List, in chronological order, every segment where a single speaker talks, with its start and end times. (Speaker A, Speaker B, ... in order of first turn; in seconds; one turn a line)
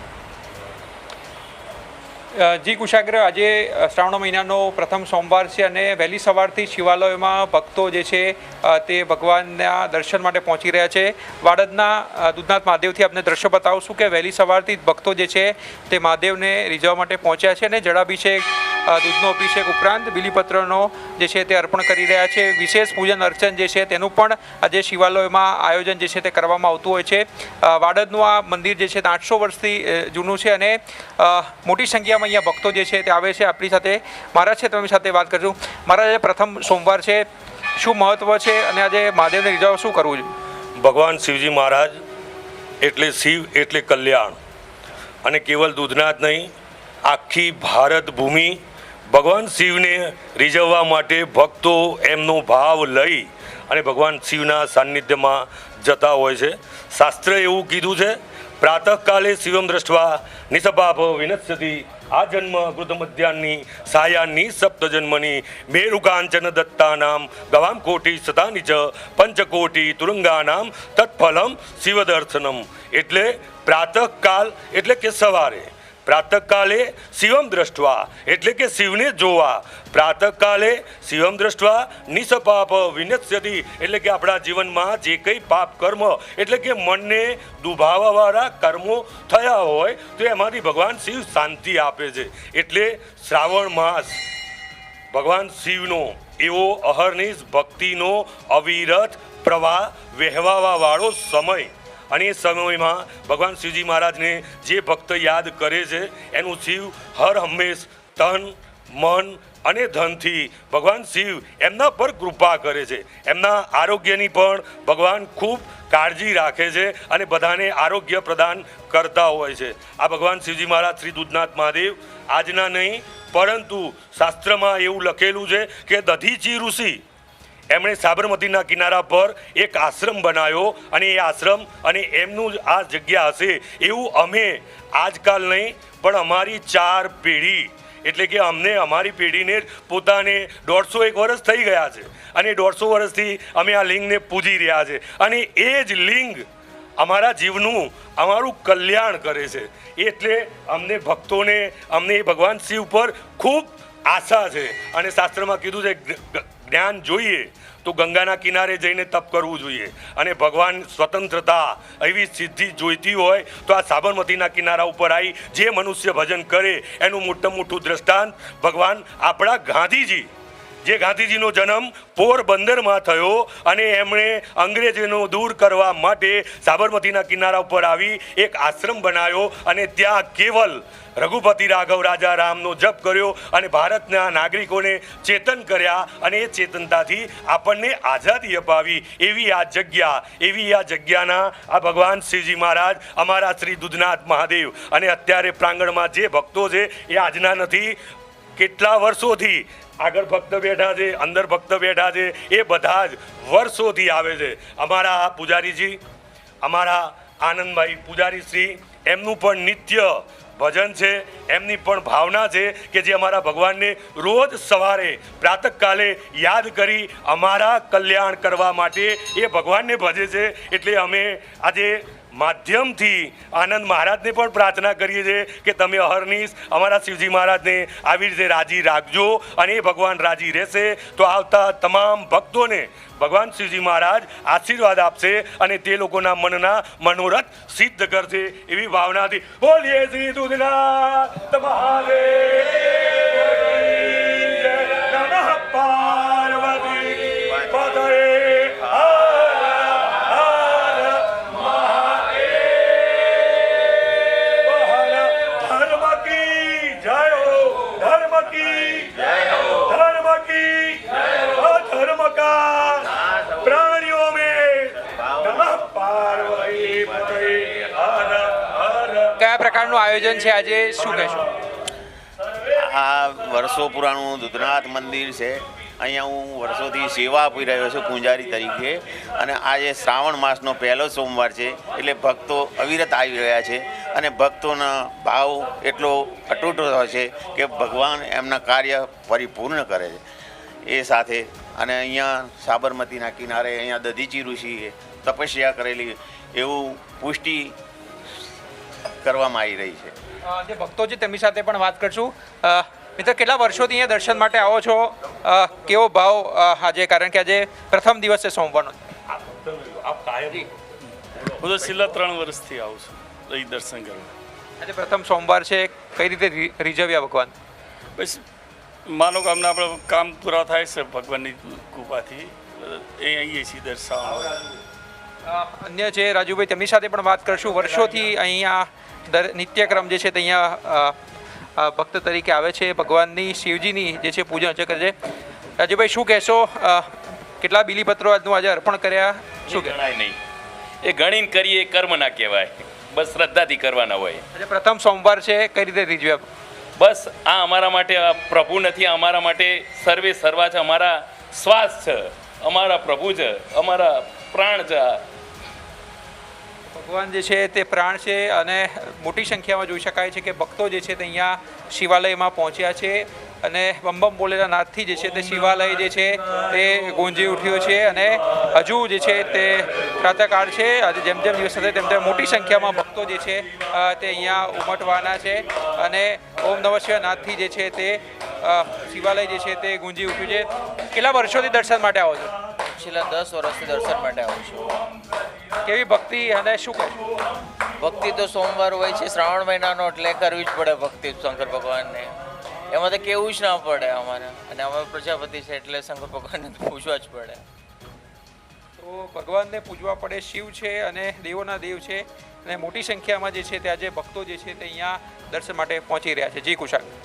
Speaker A: 2.4-37.2
Speaker A: 37.8-40.3
Speaker B: 40.8-42.0
Speaker B: 42.8-44.4
Speaker B: 45.2-46.5
Speaker B: 47.1-48.6
Speaker B: 49.1-94.2
Speaker B: 95.1-127.0
Speaker B: 127.7-146.4
Speaker B: 147.0-170.3
Speaker B: 170.8-198.0
Speaker B: 198.6-206.0
Speaker B: 206.6-253.3
Speaker B: 254.4-269.4
Speaker C: 265.1-265.8
Speaker A: 269.4-271.5
Speaker C: 272.7-290.2
Speaker C: 290.8-297.8
Speaker C: 299.2-300.1
Speaker A: 300.4-309.1
Speaker B: 309.3-310.9
Speaker D: 311.6-314.3
Speaker A: 314.8-317.5
Speaker D: 318.2-318.4
Speaker D: 319.1-324.7
Speaker A: 325.4-331.1
Speaker A: 331.8-335.1
Speaker A: 335.8-339.9
Speaker E: 339.7-340.4
Speaker E: 341.0-344.4
Speaker A: 344.5-346.4
Speaker E: 347.0-355.2
Speaker A: 356.9-382.6
Speaker F: 382.8-384.9
Speaker A: 385.8-387.2
Speaker F: 388.0-392.3
Speaker F: 392.9-397.6
Speaker A: 399.0-407.1